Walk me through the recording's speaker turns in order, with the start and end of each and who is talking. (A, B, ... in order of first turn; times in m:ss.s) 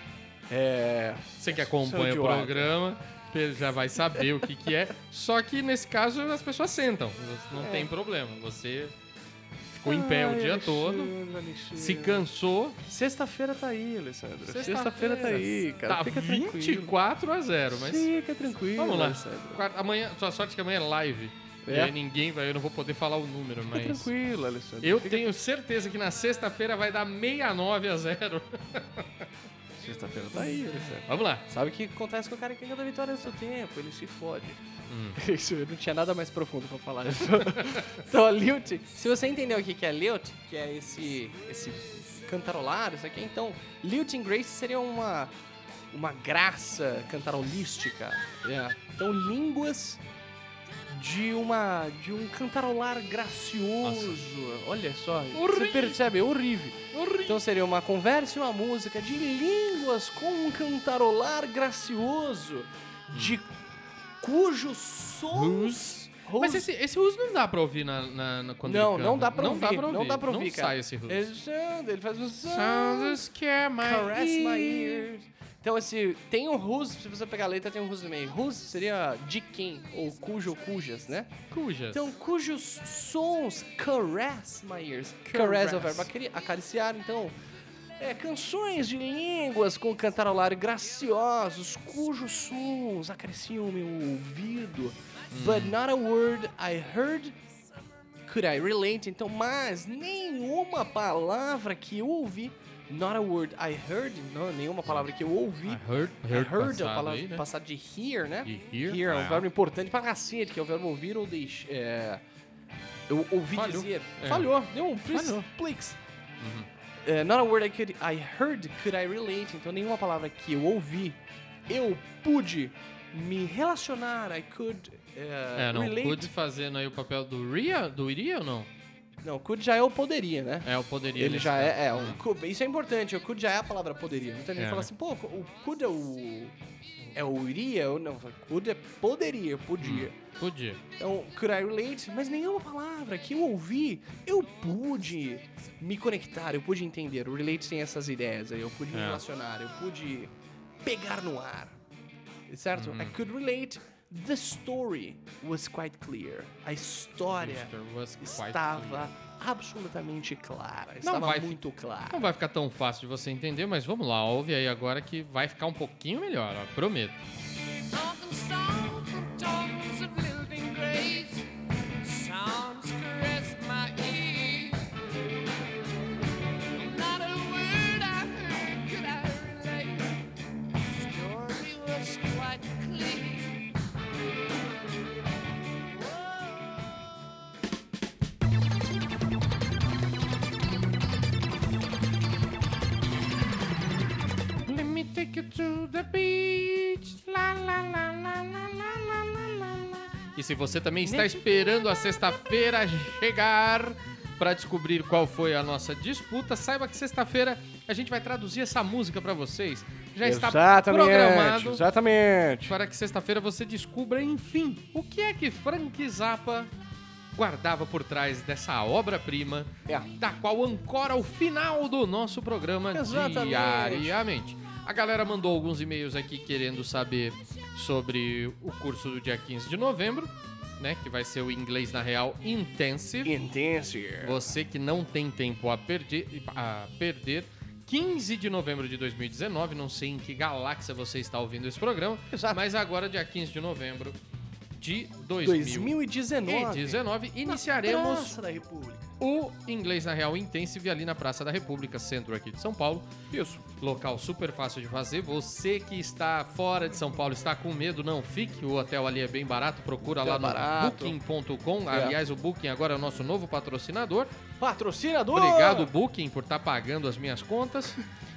0:00.5-0:02.7 A
0:01.4-0:08.9 B
0:07.5-0:07.9 A
0:09.7-0:11.1 B
0:09.8-0:12.3 A
0:11.8-0:12.8 B
0:12.9-0:17.0 A
0:14.5-0:18.1 B
0:17.7-0:19.6 A
0:18.8-0:24.0 B
0:21.6-0:21.9 A
0:23.7-0:25.3 A
0:24.8-0:29.0 B
0:29.8-0:34.6 A
0:31.0-0:31.4 B
0:34.9-0:35.2 B
0:35.2-0:45.3 A
0:45.9-0:50.0 A
0:50.9-1:03.5 A
0:53.8-0:54.1 B
0:55.4-0:55.9 B
0:57.0-0:57.3 B
1:04.2-1:06.7 A
1:05.3-1:11.2 B
1:08.6-1:13.2 A
1:12.5-1:15.0 B
1:13.8-1:21.3 A
1:21.5-1:22.0 B
1:21.9-1:27.3 A
1:25.3-1:26.0 B
1:28.0-1:37.4 A
1:35.3-1:35.7 B
1:38.3-1:52.2 A
1:45.7-1:47.4 B
1:48.4-1:49.4 B
1:53.1-1:56.0 A
1:53.6-1:54.4 B
1:55.1-1:55.4 B
1:56.4-1:56.7 B
1:57.0-2:06.3 A
2:05.6-2:08.7 B
2:09.2-2:16.5 A
2:10.6-2:12.2 B
2:14.6-2:14.9 B
2:17.1-2:20.1 A
2:19.8-2:20.8 B
2:21.0-2:30.3 A
2:30.8-2:31.7 A
2:32.5-2:42.3 A
2:32.8-2:33.1 B
2:37.4-2:39.1 B
2:41.0-2:41.6 B
2:42.1-2:47.2 B
2:47.9-2:51.5 C
2:52.0-2:54.9 C
2:56.7-3:00.1 C
3:00.8-3:03.6 C
3:06.0-3:06.6 C
3:14.6-3:31.8 B
3:21.0-3:21.4 A
3:30.2-3:32.8 A
3:32.7-3:36.7 B
3:37.4-3:53.2 B
3:42.9-3:44.2 A
3:53.2-3:54.6 A
3:54.2-4:04.2 B
4:02.3-4:02.6 A
4:04.8-4:05.9 B
4:05.4-4:09.1 A
4:06.5-4:08.3 B
4:09.2-4:13.1 B
4:13.3-4:13.6 A
4:13.8-4:24.3 B
4:20.2-4:21.2 A
4:21.9-4:22.2 A
4:24.6-4:25.9 A
4:25.3-4:27.9 B